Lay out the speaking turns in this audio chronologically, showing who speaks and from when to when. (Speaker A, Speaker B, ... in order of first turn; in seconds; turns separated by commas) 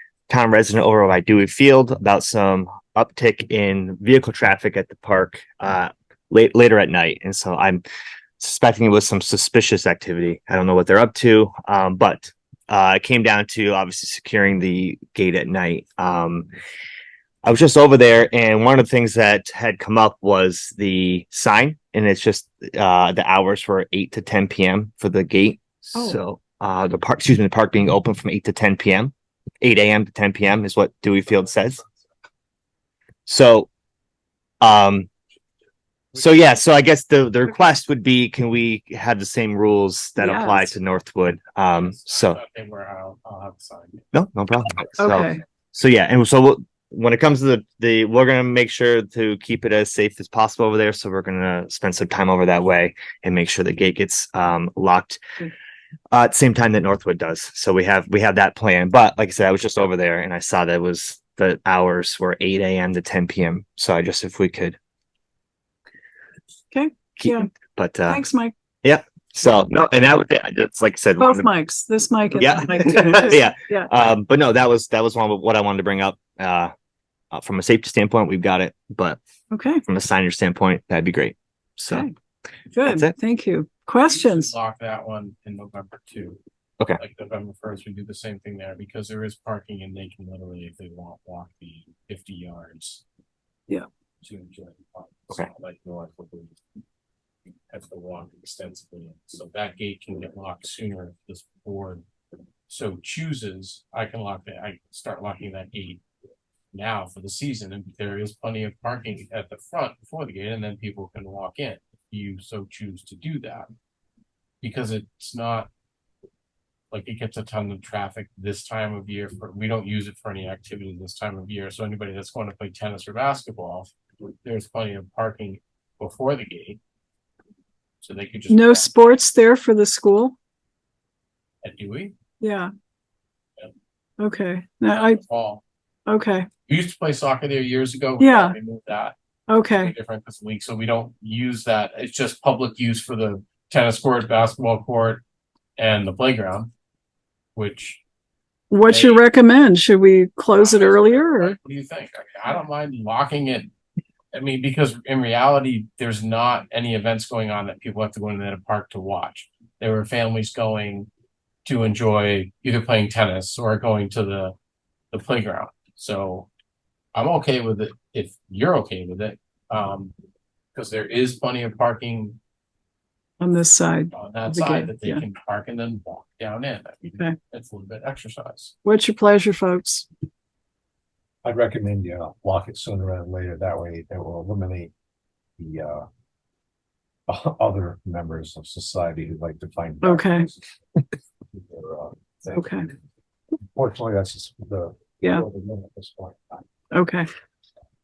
Speaker A: 0.3-7.8, Speaker A: 8.4-16.5, Speaker A: 17.4-31.8, Speaker A: 33.2-33.7, Speaker A: 34.6-35.1, Speaker A: 36.1-42.4, Speaker B: 40.2-40.7, Speaker C: 41.7-44.0, Speaker A: 44.1-55.2, Speaker B: 45.0-45.4, Speaker A: 56.1-64.8, Speaker B: 66.7-67.5, Speaker A: 67.2-68.2, Speaker B: 68.0-68.5, Speaker A: 68.8-71.5, Speaker B: 71.2-73.9, Speaker A: 72.3-76.7, Speaker A: 77.3-79.2, Speaker B: 79.5-79.8, Speaker A: 79.9-82.1, Speaker B: 81.9-82.1, Speaker B: 82.7-84.5, Speaker A: 82.9-83.1, Speaker C: 84.0-86.4, Speaker C: 87.0-93.0, Speaker C: 94.2-96.6, Speaker C: 97.7-102.0, Speaker C: 102.7-106.0, Speaker C: 106.7-113.7, Speaker C: 114.6-115.7, Speaker C: 116.9-123.9, Speaker C: 124.4-126.8, Speaker C: 128.0-129.2, Speaker B: 128.5-130.4, Speaker C: 131.6-132.1, Speaker B: 132.4-132.7, Speaker B: 134.2-135.2, Speaker C: 134.9-135.6, Speaker B: 136.1-136.5, Speaker C: 136.7-139.2, Speaker B: 138.2-138.6, Speaker B: 139.5-139.9, Speaker C: 139.7-145.2, Speaker C: 145.8-146.7, Speaker C: 147.6-148.0, Speaker B: 148.7-151.6, Speaker C: 148.9-149.2, Speaker C: 150.6-153.7, Speaker C: 154.3-161.1, Speaker C: 161.7-164.6, Speaker C: 165.1-166.5, Speaker C: 167.2-170.1, Speaker C: 170.7-172.4, Speaker B: 173.4-175.2, Speaker C: 174.1-178.8, Speaker B: 177.1-177.4, Speaker B: 178.8-180.1, Speaker D: 181.4-184.9, Speaker D: 185.6-186.1, Speaker D: 187.3-190.7, Speaker B: 190.0-190.5, Speaker D: 191.5-192.8, Speaker B: 192.5-192.9, Speaker D: 193.7-196.7, Speaker B: 196.9-197.3